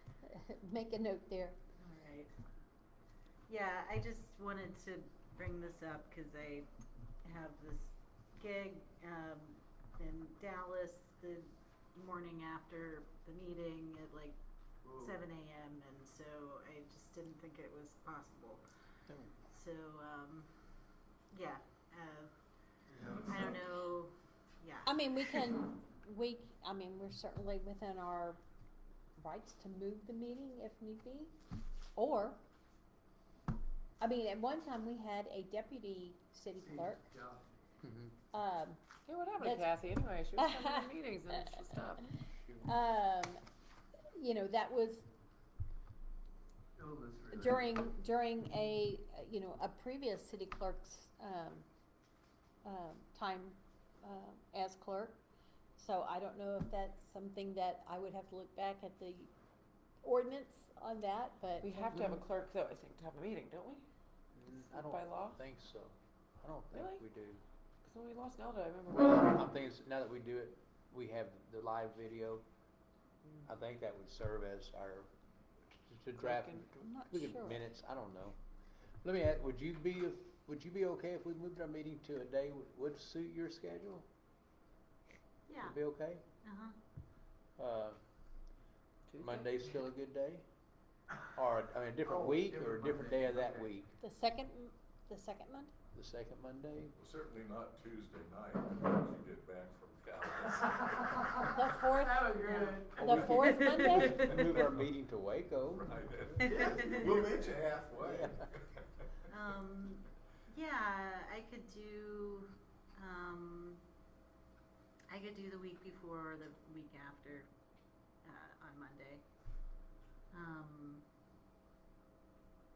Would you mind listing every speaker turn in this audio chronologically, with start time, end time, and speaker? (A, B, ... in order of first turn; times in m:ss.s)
0:00.2-0:01.6 A
0:01.8-0:02.3 B
0:03.5-0:06.7 B
0:07.2-0:14.4 B
0:14.9-0:18.6 B
0:19.5-0:20.5 B
0:21.3-0:22.3 B
0:23.0-0:23.6 C
0:23.0-0:25.5 B
0:24.8-0:28.4 A
0:29.2-0:31.3 A
0:32.0-0:32.4 A
0:34.0-0:37.1 A
0:36.6-0:37.4 C
0:37.8-0:38.1 D
0:38.3-0:38.8 A
0:39.1-0:42.1 E
0:39.4-0:39.7 A
0:40.4-0:41.6 A
0:42.6-0:43.4 A
0:44.2-0:45.1 A
0:46.8-0:47.7 C
0:47.3-0:51.6 A
0:52.6-0:55.2 A
0:55.8-0:59.3 A
1:00.0-1:01.8 A
1:01.6-1:03.8 E
1:04.3-1:07.4 D
1:04.6-1:05.4 E
1:06.7-1:07.0 E
1:07.8-1:09.4 E
1:08.9-1:12.4 D
1:13.4-1:15.1 D
1:15.7-1:18.4 D
1:16.2-1:16.7 E
1:16.8-1:17.6 A
1:19.0-1:24.0 D
1:25.5-1:25.8 B
1:25.6-1:26.2 D
1:26.4-1:26.8 B
1:27.6-1:28.0 D
1:29.1-1:29.6 E
1:29.2-1:30.4 D
1:31.3-1:34.0 D
1:32.1-1:33.6 C
1:34.0-1:35.7 A
1:35.9-1:37.0 D
1:37.0-1:41.5 F
1:41.4-1:44.6 A
1:42.0-1:42.9 C
1:42.9-1:46.0 D
1:45.7-1:48.3 F
1:46.4-1:47.3 B
1:46.5-1:48.3 C
1:48.0-1:48.5 D
1:49.3-1:53.8 B
1:55.1-1:57.5 B
1:58.2-1:59.2 B
2:00.3-2:01.0 B